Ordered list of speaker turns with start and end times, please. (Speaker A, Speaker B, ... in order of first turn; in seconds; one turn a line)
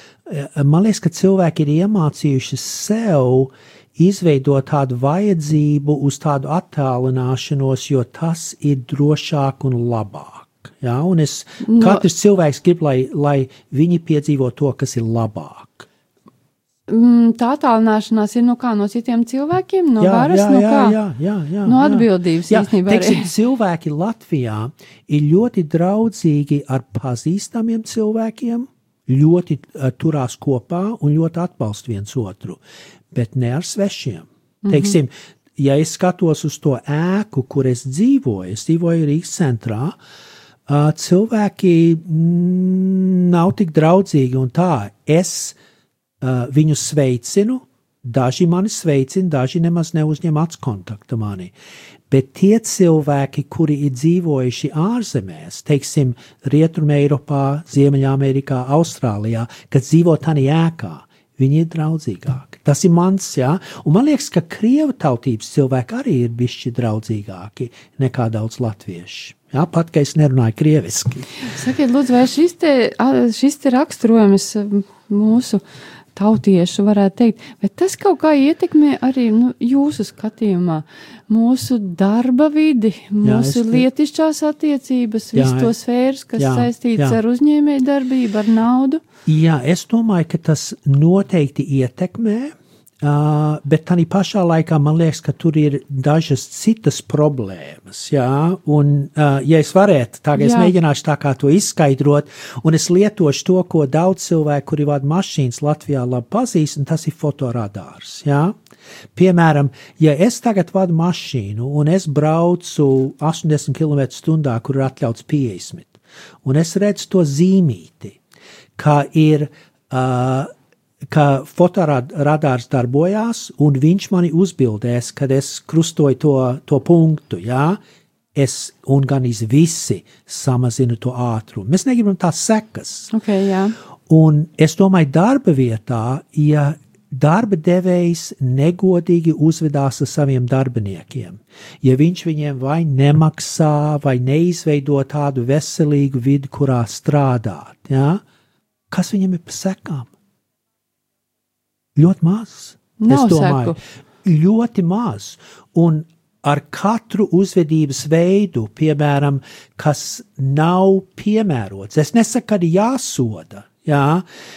Speaker A: 0.3-15.9
Speaker B: 11.6-12.1
Speaker B: 16.9-21.0
Speaker A: 20.0-40.0
Speaker B: 21.7-23.3
Speaker B: 34.6-35.0
Speaker A: 40.7-45.6
Speaker A: 46.2-51.5
Speaker A: 52.1-71.3
Speaker B: 71.4-75.6
Speaker B: 76.2-89.0
Speaker A: 83.2-83.9
Speaker A: 85.3-85.7
Speaker A: 86.4-87.2
Speaker A: 89.3-108.5
Speaker B: 100.3-100.7
Speaker A: 109.2-118.2
Speaker A: 118.8-120.5
Speaker A: 121.1-127.8
Speaker A: 128.3-133.1
Speaker B: 133.1-133.8
Speaker A: 134.1-148.2
Speaker A: 148.9-150.1
Speaker A: 151.9-164.2
Speaker B: 153.0-153.8